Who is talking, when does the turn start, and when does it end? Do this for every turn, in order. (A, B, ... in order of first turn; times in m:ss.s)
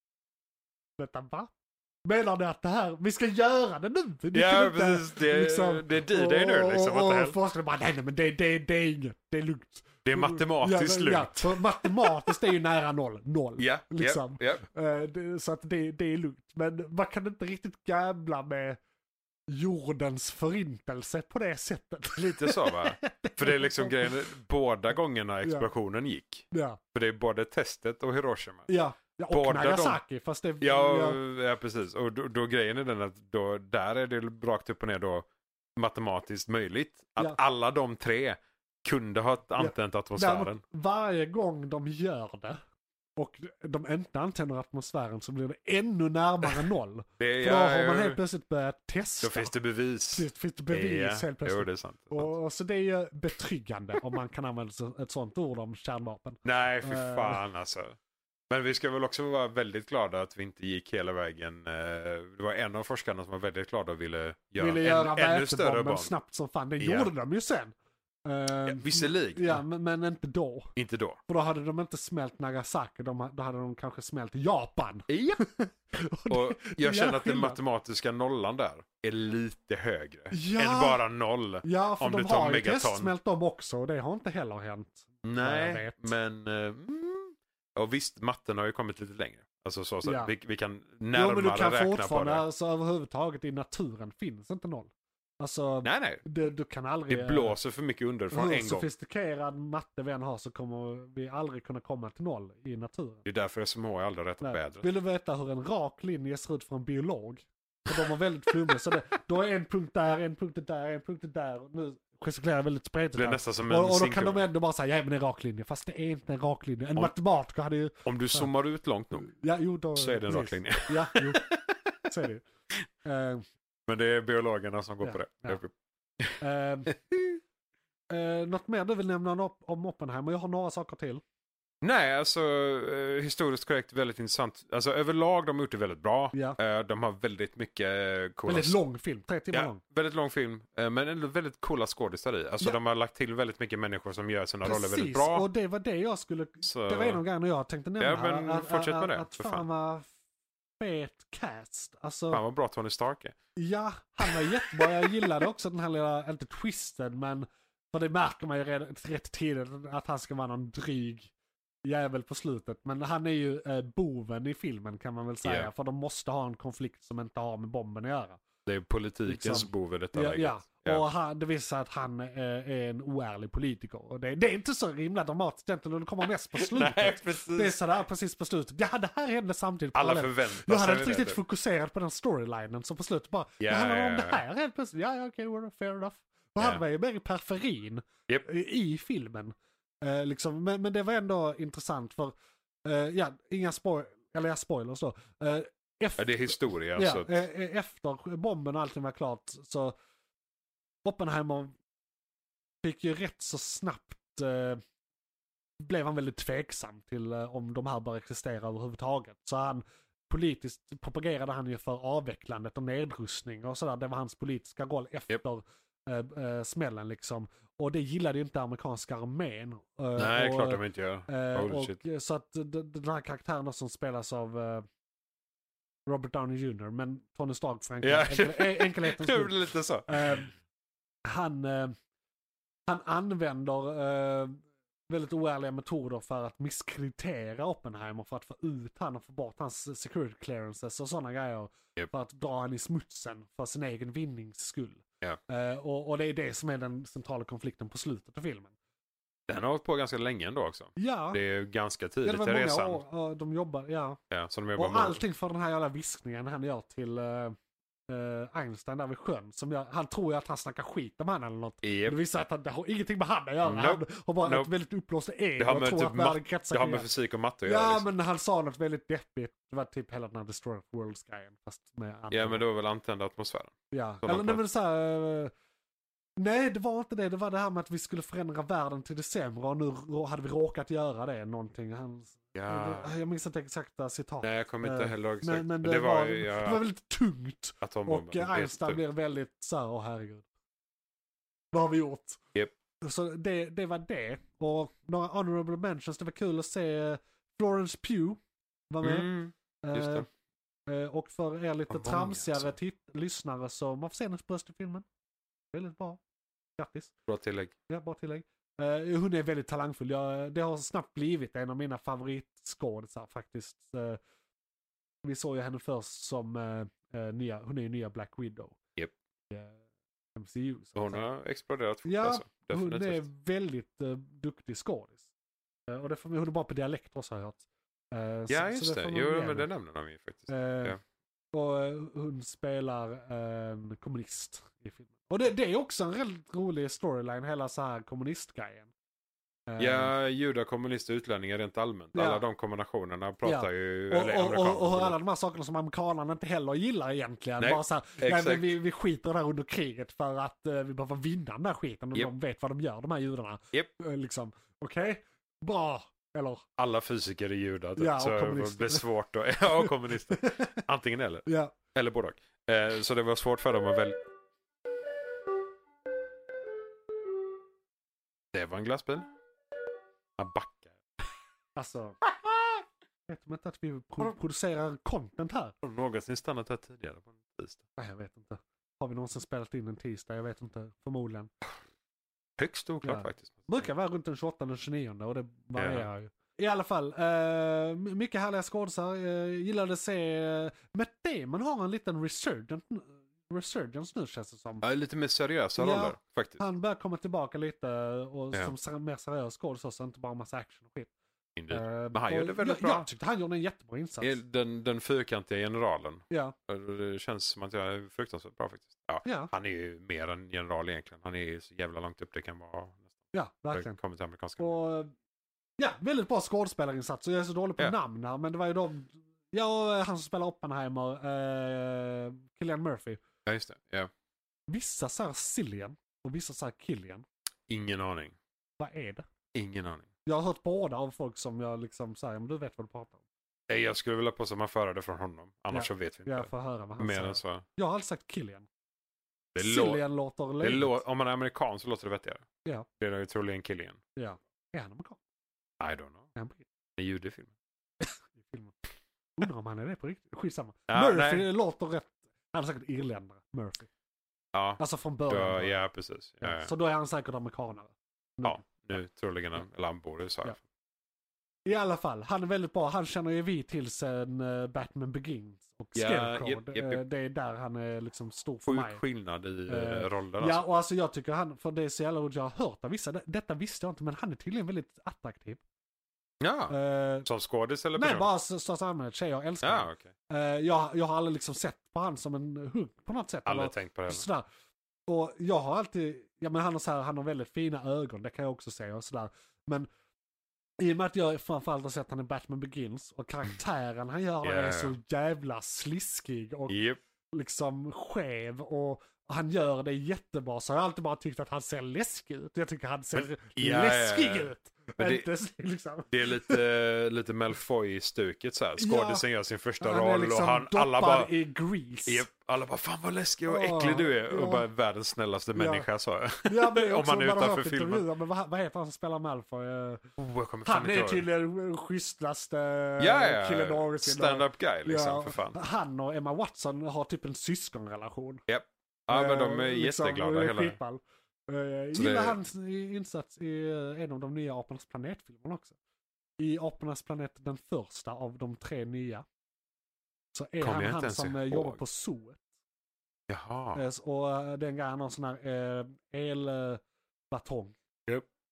0:01.0-0:01.5 A
0:02.0-0:18.8 A
0:04.3-0:07.4 B
0:10.0-0:12.4 B
0:13.6-0:14.6 B
0:19.5-0:24.2 A
0:22.2-0:28.7 B
0:25.4-0:25.7 A
0:26.5-0:26.8 A
0:28.7-0:31.2 A
0:29.3-0:30.0 B
0:30.6-0:40.6 B
0:39.6-0:42.6 A
0:43.2-0:49.5 A
0:47.2-0:48.2 B
0:49.2-0:52.3 B
0:50.1-0:57.4 A
0:56.4-0:58.0 B
0:58.5-1:06.1 B
1:04.6-1:07.7 A
1:06.8-1:07.1 B
1:08.2-1:10.7 A
1:08.6-1:09.6 B
1:10.8-1:11.2 B
1:11.3-1:17.6 A
1:15.1-1:15.4 B
1:16.3-1:23.1 B
1:20.3-1:21.0 A
1:21.6-1:26.1 A
1:25.2-1:32.4 B
1:30.0-1:30.3 A
1:31.1-1:37.6 A
1:35.8-1:36.2 B
1:37.1-1:38.9 B
1:38.3-1:43.2 A
1:43.2-1:44.9 B
1:44.4-1:58.5 A
1:53.2-1:54.4 B
1:58.0-1:59.3 B
1:59.2-2:01.5 A
2:00.0-2:01.6 B
2:02.0-2:02.4 A
2:03.0-2:03.4 A
2:03.9-2:06.4 B
2:05.0-2:05.6 A
2:06.4-2:07.0 A
2:08.1-2:11.2 A
2:11.8-2:18.8 B
2:16.3-2:16.6 A
2:18.5-2:19.8 A
2:19.5-2:25.5 B
2:24.6-2:30.1 A
2:26.6-2:27.2 B
2:28.0-2:29.7 B
2:30.8-2:32.4 A
2:32.3-2:33.4 B
2:33.6-2:41.3 A
2:34.3-2:35.2 B
2:41.8-2:48.4 A
2:45.4-2:45.7 B
2:48.7-2:51.0 B
2:49.3-3:12.3 A
2:56.6-2:57.8 B
3:00.0-3:01.4 B
3:03.6-3:04.4 B
3:12.8-3:19.9 A
3:16.2-3:17.3 B
3:21.0-3:21.8 A
3:22.8-3:24.8 A
3:25.8-3:44.9 A
3:40.2-3:42.0 B
3:46.1-3:49.6 A
3:48.0-3:50.4 B
3:50.1-3:50.5 A
3:51.3-3:52.0 A
3:52.9-4:08.7 A
4:09.5-4:13.0 B
4:11.0-4:11.4 A
4:12.2-4:14.2 A
4:14.3-4:15.2 B
4:14.8-4:17.6 A
4:18.1-4:27.1 A
4:21.8-4:22.2 B
4:23.6-4:24.7 B
4:25.6-4:28.1 B
4:27.6-4:32.6 A
4:32.3-4:34.6 B
4:33.9-4:35.5 A
4:36.4-4:50.5 A
4:42.6-4:43.1 B
4:44.4-4:46.8 B
4:47.8-4:49.0 B
4:51.7-4:52.4 A
4:53.0-5:00.3 A
4:59.0-5:00.3 B
5:00.9-5:05.0 A
5:01.9-5:02.8 B
5:05.7-5:06.2 A
5:06.8-5:07.1 A
5:07.3-5:07.7 B
5:07.9-5:14.2 A
5:15.2-5:18.8 A
5:19.5-5:19.8 A
5:20.4-5:21.2 A
5:21.0-5:23.3 B
5:22.0-5:25.3 A
5:25.9-5:29.7 A
5:28.5-5:31.0 B
5:30.5-5:31.0 A
5:31.5-5:38.9 A
5:39.7-5:40.1 A
5:39.8-5:45.2 B
5:42.1-5:42.4 A
5:43.4-5:56.6 A
5:47.6-5:48.7 B
5:56.8-6:04.2 B
5:58.0-5:59.0 A
5:59.8-6:00.8 A
6:01.5-6:01.7 A
6:08.5-6:09.3 B
6:10.4-6:11.0 B
6:11.8-6:12.2 A
6:13.3-6:15.8 A
6:15.8-6:17.8 B
6:18.0-6:21.5 A
6:22.6-6:23.8 B
6:23.0-6:34.9 A
6:25.8-6:26.1 B
6:34.8-6:36.6 B
6:35.8-6:41.1 A
6:41.6-6:43.1 B
6:41.7-6:44.4 A
6:44.2-6:53.1 B
6:46.3-6:46.6 A
6:49.2-6:49.5 A
6:53.3-6:54.0 A
6:53.7-6:54.8 B
6:54.6-6:55.1 A
6:55.8-7:03.2 A
7:03.5-7:04.1 B
7:04.7-7:07.2 A
7:07.7-7:08.4 B
7:08.8-7:09.3 A
7:09.5-7:10.1 B
7:10.3-7:13.2 A
7:13.7-7:17.6 B
7:15.7-7:18.7 A
7:19.6-7:20.0 B
7:19.6-7:21.0 A
7:20.6-7:22.4 B
7:23.0-7:24.0 B
7:24.2-7:25.2 A
7:25.8-7:26.3 B
7:26.4-7:26.7 A
7:27.0-7:27.5 B
7:28.0-7:28.8 A
7:29.4-7:33.9 A
7:30.9-7:31.5 B
7:34.5-7:36.7 B
7:34.8-7:35.8 A
7:36.4-7:38.9 A
7:38.4-7:40.6 B
7:41.7-7:49.0 A
7:46.0-7:47.0 B
7:48.7-7:50.6 B
7:49.7-7:55.6 A
7:56.4-7:58.3 B
7:56.7-7:57.3 A
7:58.0-8:04.5 A
7:59.6-8:00.1 B
8:03.5-8:04.2 B
8:05.1-8:09.9 A
8:10.8-8:16.8 A
8:14.4-8:15.0 B
8:16.7-8:17.0 B
8:17.3-8:26.6 A
8:23.2-8:25.3 B
8:26.1-8:31.3 B
8:28.8-8:29.2 A
8:29.8-8:32.3 A
8:32.1-8:38.0 B
8:33.5-8:34.7 A
8:35.6-8:35.9 A
8:36.4-8:40.0 A
8:40.2-8:41.3 B
8:40.6-8:48.4 A
8:43.0-8:45.6 B
8:48.5-8:50.8 B
8:49.1-8:55.8 A
8:51.9-8:52.4 B
8:56.4-8:59.2 A
9:00.3-9:02.4 A
9:00.6-9:01.8 B
9:03.3-9:03.8 B
9:03.8-9:07.8 A